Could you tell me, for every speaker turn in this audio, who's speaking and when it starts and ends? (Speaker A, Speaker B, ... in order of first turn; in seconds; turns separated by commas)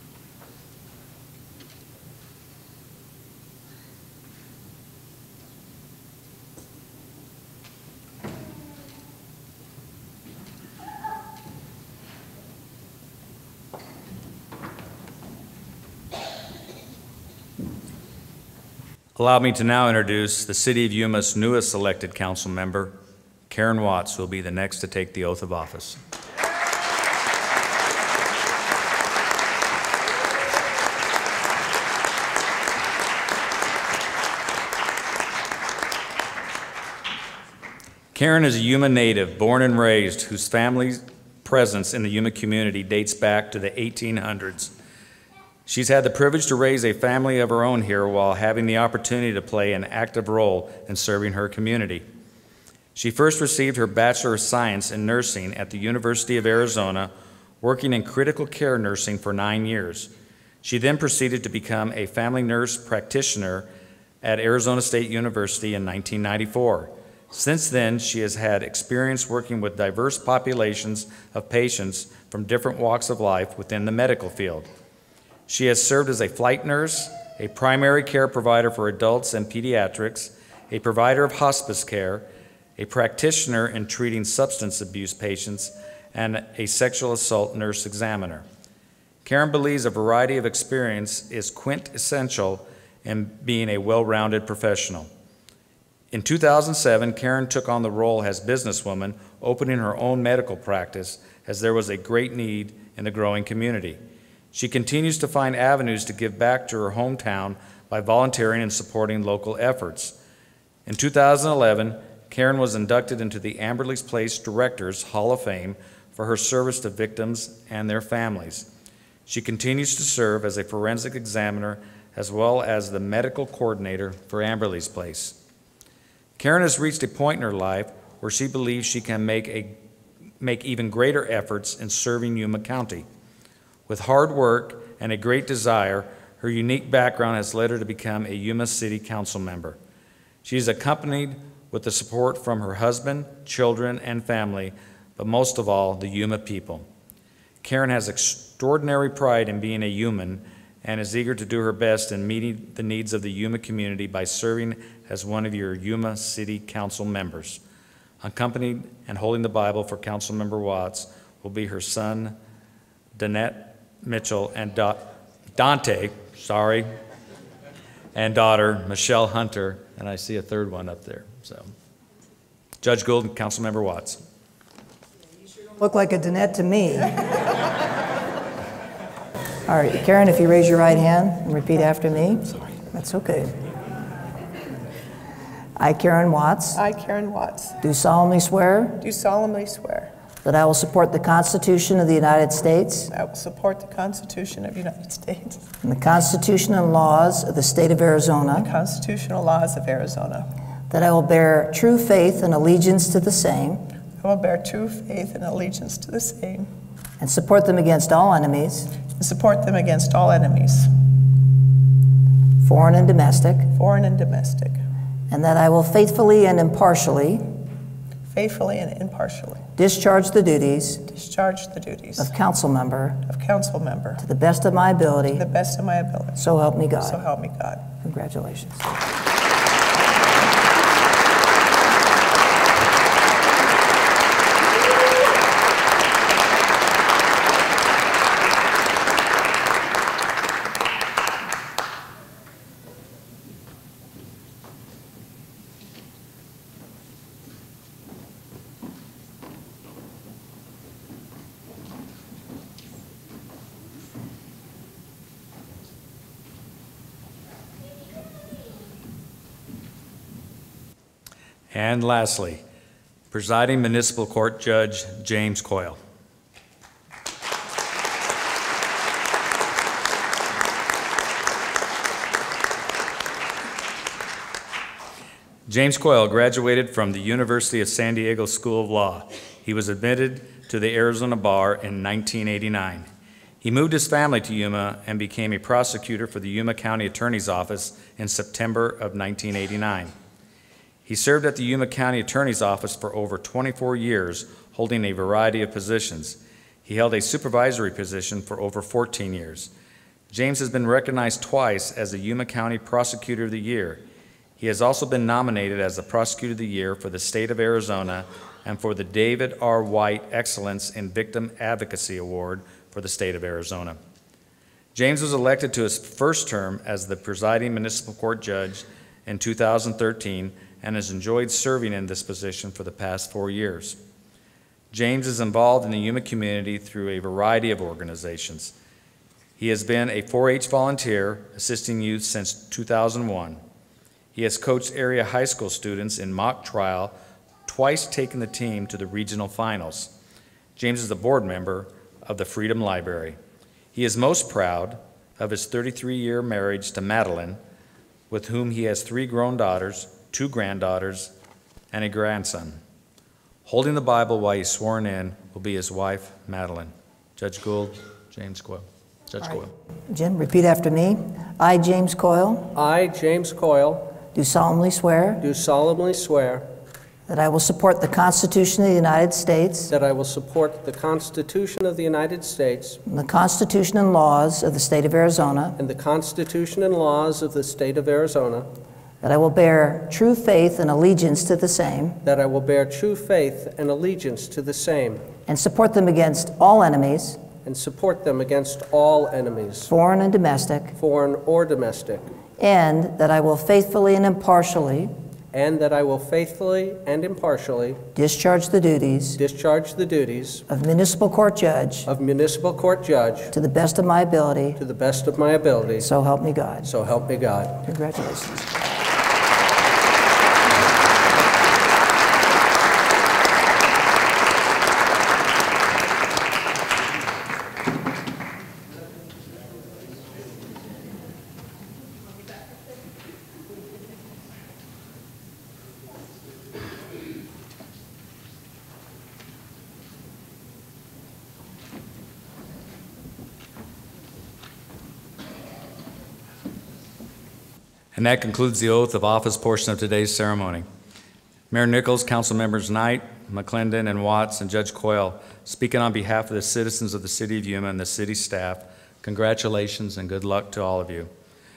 Speaker A: 19.1-23.0, Speaker A: 23.5-26.0, Speaker A: 38.1-44.7, Speaker A: 45.7-52.0, Speaker A: 52.9-57.1, Speaker A: 57.6-60.1, Speaker A: 60.6-63.7, Speaker A: 64.2-74.7, Speaker A: 75.5-82.2, Speaker A: 82.8-88.4, Speaker A: 89.2-95.1, Speaker A: 96.1-104.0, Speaker A: 104.5-110.2, Speaker A: 110.8-118.7, Speaker A: 119.3-125.3, Speaker A: 126.4-129.8, Speaker A: 130.4-133.1, Speaker A: 133.9-139.8, Speaker A: 140.4-146.9, Speaker A: 147.6-157.6, Speaker A: 158.2-162.4, Speaker A: 163.2-166.9, Speaker A: 168.1-171.7, Speaker A: 172.8-174.2, Speaker B: 175.8-177.1, Speaker B: 179.7-183.6, Speaker B: 185.8-186.8, Speaker C: 186.7-187.8, Speaker B: 187.8-189.0, Speaker C: 189.0-190.1, Speaker B: 190.4-193.1, Speaker C: 193.1-195.7, Speaker B: 195.8-198.7, Speaker C: 198.5-200.5, Speaker B: 200.9-203.9, Speaker C: 204.2-206.7, Speaker B: 207.2-209.0, Speaker C: 209.2-210.9, Speaker B: 212.6-213.7, Speaker C: 213.7-214.8, Speaker B: 215.3-217.5, Speaker C: 218.2-219.7, Speaker B: 219.8-221.0, Speaker C: 221.0-222.3, Speaker B: 222.2-223.2, Speaker C: 223.2-224.2, Speaker B: 224.2-225.4, Speaker C: 225.3-227.9, Speaker B: 226.4-227.2, Speaker B: 227.9-229.0, Speaker A: 261.7-262.6, Speaker A: 263.3-266.0, Speaker A: 275.7-283.1, Speaker A: 283.6-290.1, Speaker A: 291.1-299.7, Speaker A: 300.3-304.0, Speaker A: 304.6-314.0, Speaker A: 314.9-324.0, Speaker A: 324.9-328.7, Speaker A: 329.6-333.6, Speaker A: 334.3-340.1, Speaker A: 340.8-343.4, Speaker A: 343.9-347.6, Speaker A: 348.3-351.3, Speaker A: 351.9-352.8, Speaker A: 353.6-359.7, Speaker B: 360.1-362.7, Speaker D: 362.7-364.2, Speaker B: 364.3-365.4, Speaker D: 365.4-366.7, Speaker B: 367.3-369.9, Speaker D: 369.9-373.0, Speaker B: 373.1-375.8, Speaker D: 375.8-378.7, Speaker B: 379.2-382.2, Speaker D: 382.2-385.2, Speaker B: 385.5-387.4, Speaker D: 387.6-389.9, Speaker B: 389.9-390.9, Speaker D: 391.0-392.3, Speaker B: 392.6-395.1, Speaker D: 395.5-398.0, Speaker B: 398.1-399.4, Speaker D: 399.4-400.6, Speaker B: 400.7-402.1, Speaker D: 402.1-403.5, Speaker B: 403.5-404.8, Speaker D: 404.8-406.1, Speaker B: 406.0-406.9, Speaker D: 406.8-407.8, Speaker B: 407.8-408.8, Speaker A: 438.1-440.9, Speaker A: 441.7-451.3